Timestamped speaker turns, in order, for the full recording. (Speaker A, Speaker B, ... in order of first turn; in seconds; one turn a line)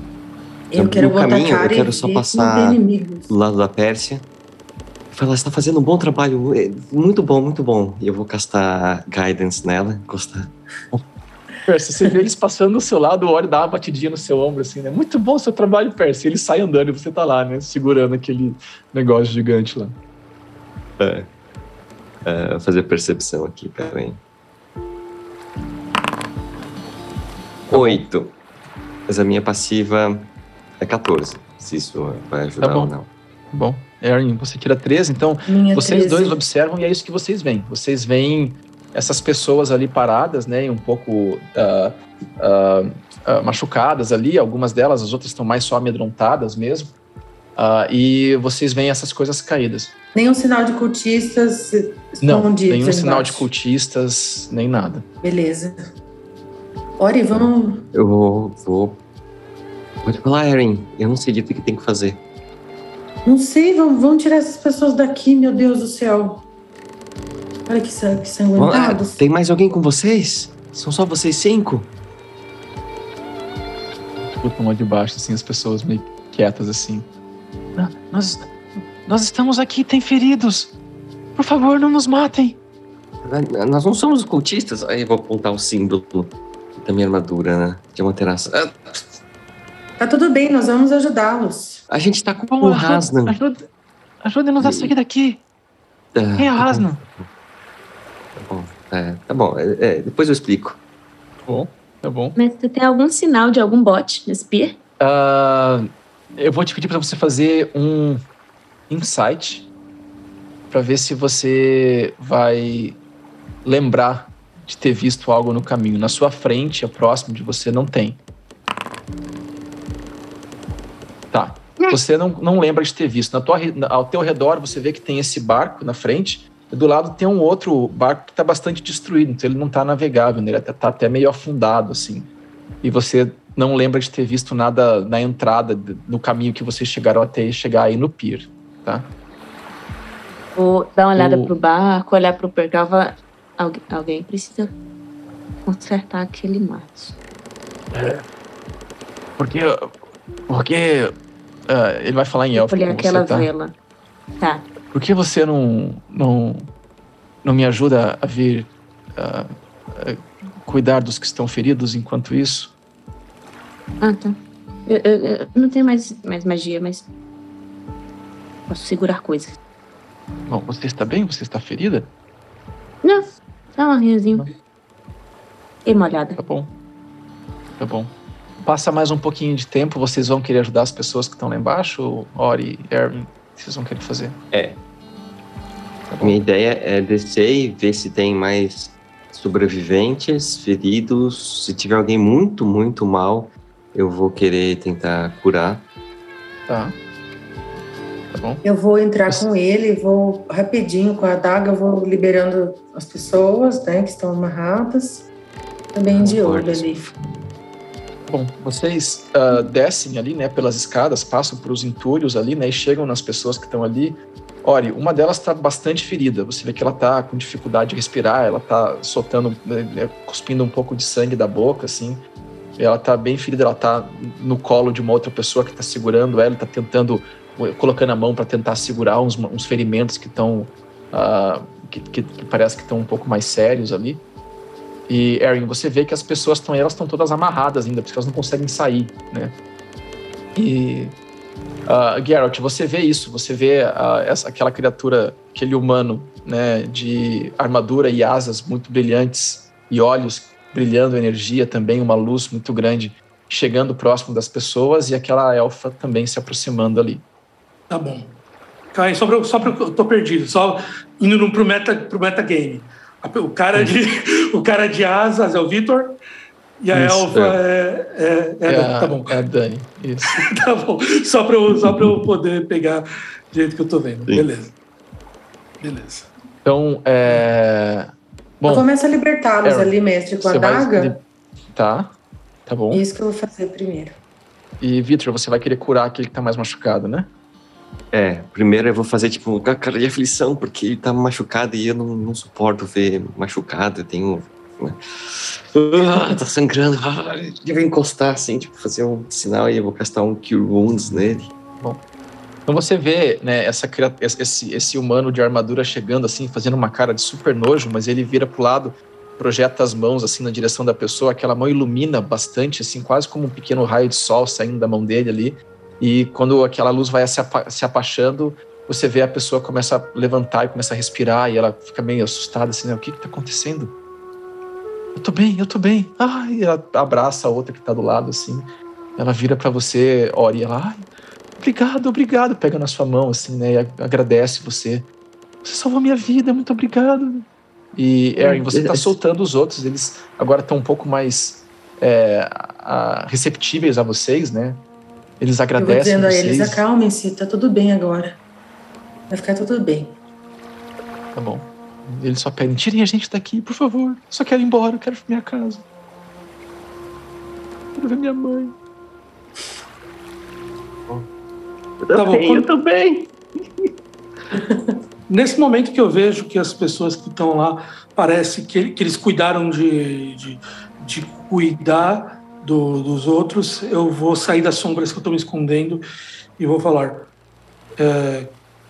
Speaker A: 0.7-3.3
Speaker B: 0.8-4.3
Speaker B: 5.1-10.5
Speaker C: 11.7-20.0
Speaker B: 21.0-21.3
Speaker B: 22.2-24.2
Speaker C: 27.7-28.0
Speaker B: 27.7-28.4
Speaker B: 29.1-33.1
Speaker C: 32.6-32.9
Speaker C: 33.5-46.9
Speaker A: 35.5-36.4
Speaker C: 47.6-49.9
Speaker A: 50.1-53.5
Speaker C: 52.2-55.0
Speaker A: 55.2-55.8
Speaker A: 57.0-57.9
Speaker B: 57.3-59.0
Speaker B: 60.0-62.2
Speaker A: 63.2-66.5
Speaker A: 67.7-69.2
Speaker B: 68.6-71.9
Speaker C: 74.4-77.1
Speaker C: 77.8-80.7
Speaker C: 81.4-82.6
Speaker B: 83.2-89.2
Speaker A: 90.0-91.8
Speaker B: 91.9-93.4
Speaker C: 92.6-93.7
Speaker C: 94.2-95.4
Speaker B: 94.6-95.0
Speaker B: 96.2-97.3
Speaker C: 96.4-97.0
Speaker B: 98.4-100.8
Speaker C: 101.5-102.4
Speaker D: 102.4-104.8
Speaker C: 105.0-108.2
Speaker C: 108.9-109.7
Speaker C: 110.7-113.0
Speaker C: 113.7-118.2
Speaker C: 121.3-132.3
Speaker C: 132.8-139.1
Speaker D: 140.6-144.7
Speaker C: 141.2-141.5
Speaker D: 145.7-147.2
Speaker C: 147.9-148.2
Speaker C: 149.4-149.9
Speaker C: 150.5-151.1
Speaker C: 151.7-153.5
Speaker D: 152.5-153.7
Speaker C: 154.9-156.7
Speaker C: 157.4-162.7
Speaker D: 164.0-164.4
Speaker D: 164.9-167.1
Speaker D: 168.7-169.6
Speaker C: 170.5-172.1
Speaker D: 173.0-174.5
Speaker D: 175.8-176.4
Speaker C: 176.4-176.7
Speaker C: 177.8-178.1
Speaker C: 178.6-184.4
Speaker B: 184.5-184.8
Speaker C: 186.1-186.4
Speaker B: 186.2-195.8
Speaker C: 196.7-196.9
Speaker C: 198.3-198.6
Speaker A: 198.6-205.3
Speaker A: 205.9-207.0
Speaker B: 206.2-207.4
Speaker C: 208.3-222.2
Speaker C: 222.8-234.2
Speaker C: 235.1-239.5
Speaker C: 240.6-241.2
Speaker C: 241.9-257.2
Speaker E: 257.9-258.4
Speaker E: 258.9-266.1
Speaker E: 266.8-269.4
Speaker C: 266.9-267.3
Speaker B: 267.1-267.6
Speaker C: 268.7-270.4
Speaker E: 270.3-274.7
Speaker B: 271.8-272.2
Speaker E: 275.8-276.3
Speaker C: 276.6-278.9
Speaker A: 278.7-281.2
Speaker C: 279.6-281.2
Speaker C: 281.8-282.1
Speaker C: 282.7-283.0
Speaker A: 282.9-284.2
Speaker C: 284.8-287.3
Speaker B: 288.1-301.5
Speaker C: 302.7-323.9
Speaker C: 325.1-331.1
Speaker C: 331.6-335.1
Speaker C: 335.6-344.8
Speaker B: 338.4-339.2
Speaker C: 345.4-346.8
Speaker A: 345.8-348.4
Speaker A: 349.3-350.2
Speaker C: 351.3-355.8
Speaker C: 358.0-358.8
Speaker B: 362.0-363.9
Speaker E: 362.1-362.7
Speaker A: 364.5-365.0
Speaker E: 365.3-376.0
Speaker E: 376.6-377.3
Speaker E: 378.0-378.5